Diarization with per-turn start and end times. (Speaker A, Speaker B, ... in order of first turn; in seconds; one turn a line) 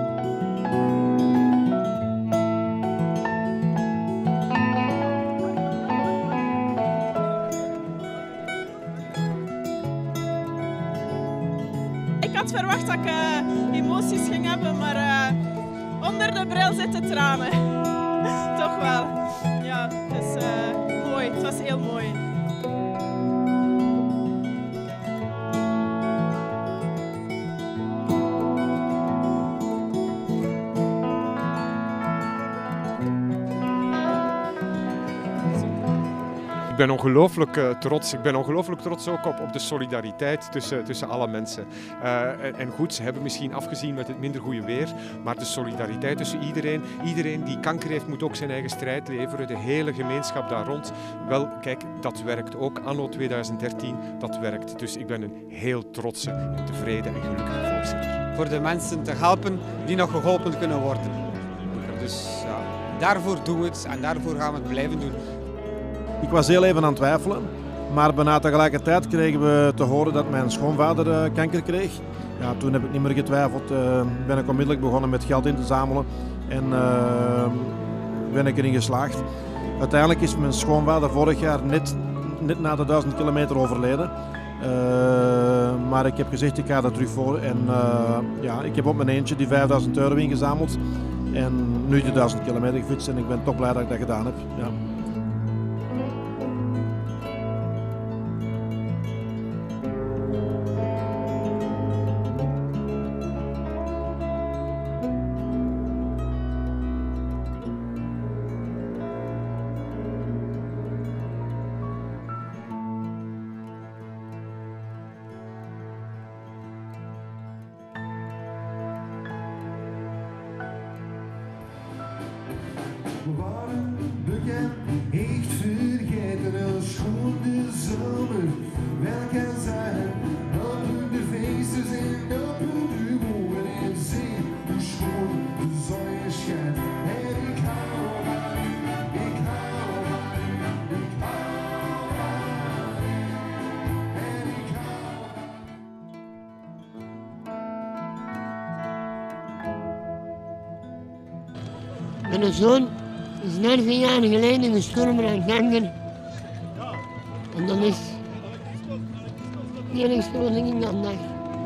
Speaker A: 12.2-15.4
Speaker A: 16.0-22.2
Speaker B: 36.7-58.2
Speaker C: 58.4-61.2
Speaker C: 61.7-65.2
Speaker D: 62.7-63.0
Speaker E: 66.2-79.3
Speaker E: 79.8-90.8
Speaker E: 91.3-94.8
Speaker D: 123.2-141.7
Speaker D: 144.4-145.2
Speaker F: 152.3-155.9
Speaker F: 157.5-158.2
Speaker F: 159.9-161.3